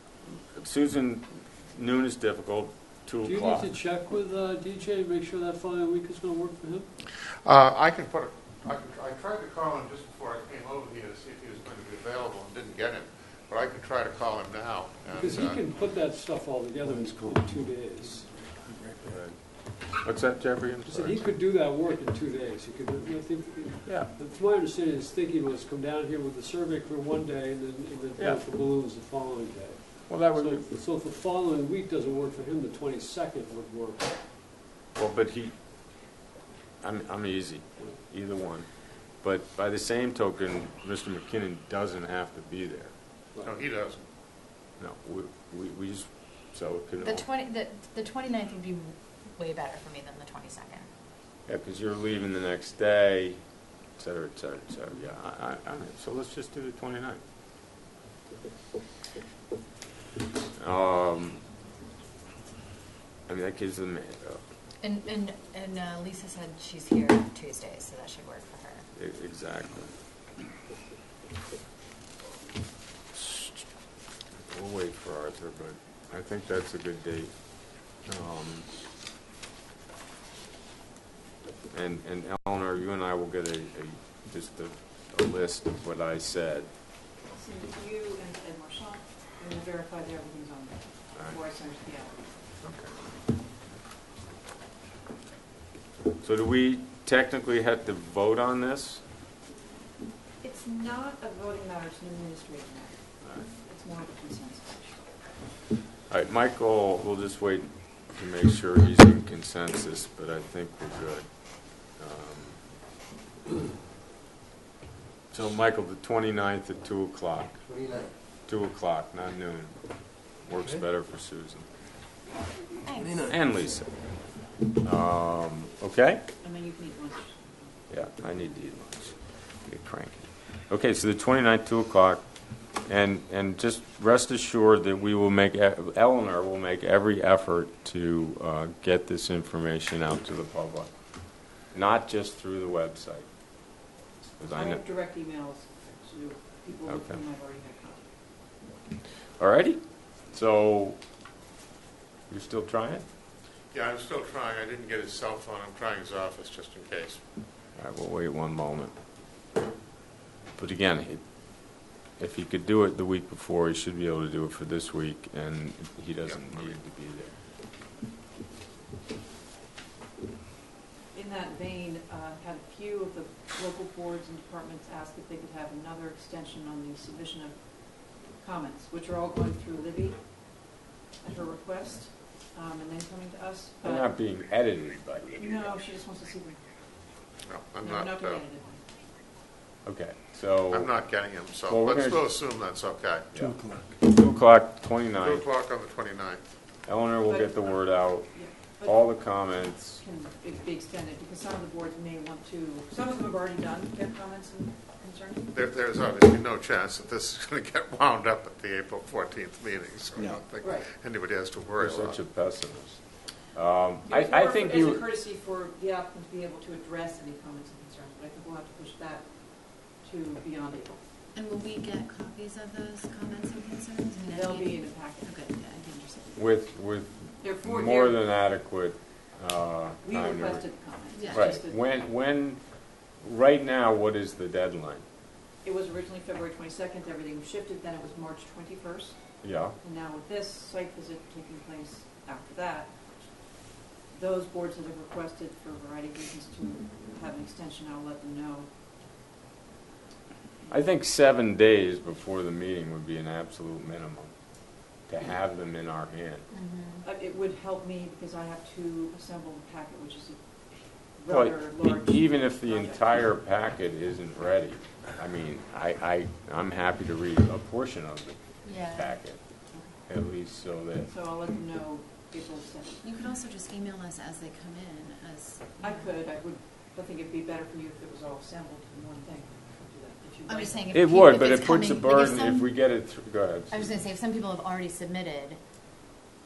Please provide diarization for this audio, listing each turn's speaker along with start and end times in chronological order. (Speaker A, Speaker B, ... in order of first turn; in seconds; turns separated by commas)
Speaker A: 0.4-3.7, Speaker B: 3.2-6.9, Speaker C: 7.4-15.6, Speaker B: 15.1-18.4, Speaker A: 18.8-19.4, Speaker A: 20.0-21.2, Speaker B: 20.9-34.1, Speaker A: 30.1-30.6, Speaker A: 35.0-35.5, Speaker A: 36.8-38.7, Speaker A: 39.2-42.9, Speaker C: 43.4-44.0, Speaker A: 44.8-47.2, Speaker D: 47.0-50.9, Speaker A: 51.5-53.4, Speaker A: 54.0-57.2, Speaker A: 60.5-61.4, Speaker A: 63.3-64.4, Speaker D: 64.8-68.9, Speaker A: 69.0-69.9, Speaker A: 73.1-73.7, Speaker A: 74.5-77.3, Speaker A: 78.0-78.7, Speaker A: 81.7-86.7, Speaker E: 87.3-92.2, Speaker A: 92.6-92.9, Speaker A: 96.2-99.0, Speaker E: 100.4-104.8, Speaker A: 106.1-112.6, Speaker A: 115.3-117.6, Speaker B: 117.8-118.0, Speaker A: 118.5-119.8, Speaker A: 120.3-121.7, Speaker D: 122.8-123.2, Speaker A: 123.1-123.9, Speaker A: 124.8-126.2, Speaker E: 126.4-127.6, Speaker A: 127.9-132.2, Speaker A: 132.8-140.9, Speaker A: 141.7-143.3, Speaker A: 144.4-144.8, Speaker E: 144.5-148.0, Speaker A: 146.9-147.2, Speaker A: 149.4-151.0, Speaker A: 152.3-153.1, Speaker C: 153.7-157.2, Speaker A: 157.8-158.9, Speaker A: 160.6-167.3, Speaker C: 166.3-166.8, Speaker E: 171.1-180.7, Speaker E: 181.2-184.1, Speaker A: 183.8-185.8, Speaker E: 185.4-186.6, Speaker C: 187.5-188.4, Speaker E: 187.8-188.8, Speaker A: 189.8-190.9, Speaker C: 190.7-193.3, Speaker A: 191.7-192.2, Speaker A: 193.3-195.4, Speaker C: 195.2-196.4, Speaker A: 196.9-200.0, Speaker E: 197.3-197.5, Speaker E: 198.2-199.0, Speaker E: 200.0-205.5, Speaker C: 205.5-212.2, Speaker E: 210.6-210.9, Speaker A: 211.8-215.0, Speaker E: 214.1-221.0, Speaker D: 221.3-226.3, Speaker E: 224.2-225.3, Speaker A: 226.4-230.7, Speaker E: 227.4-228.2, Speaker E: 230.0-231.8, Speaker D: 231.2-231.6, Speaker A: 231.3-232.6, Speaker A: 233.2-235.0, Speaker E: 235.6-239.2, Speaker A: 239.4-239.8, Speaker E: 239.8-242.9, Speaker E: 244.1-248.7, Speaker A: 250.7-254.3, Speaker A: 255.1-256.4, Speaker D: 256.5-257.0, Speaker E: 257.0-260.4, Speaker E: 261.2-263.0, Speaker A: 261.3-269.4, Speaker D: 268.6-269.2, Speaker A: 270.1-271.1, Speaker E: 271.1-273.0, Speaker D: 273.0-276.1, Speaker E: 275.8-280.9, Speaker D: 280.5-282.7, Speaker A: 280.9-283.9, Speaker D: 283.7-285.6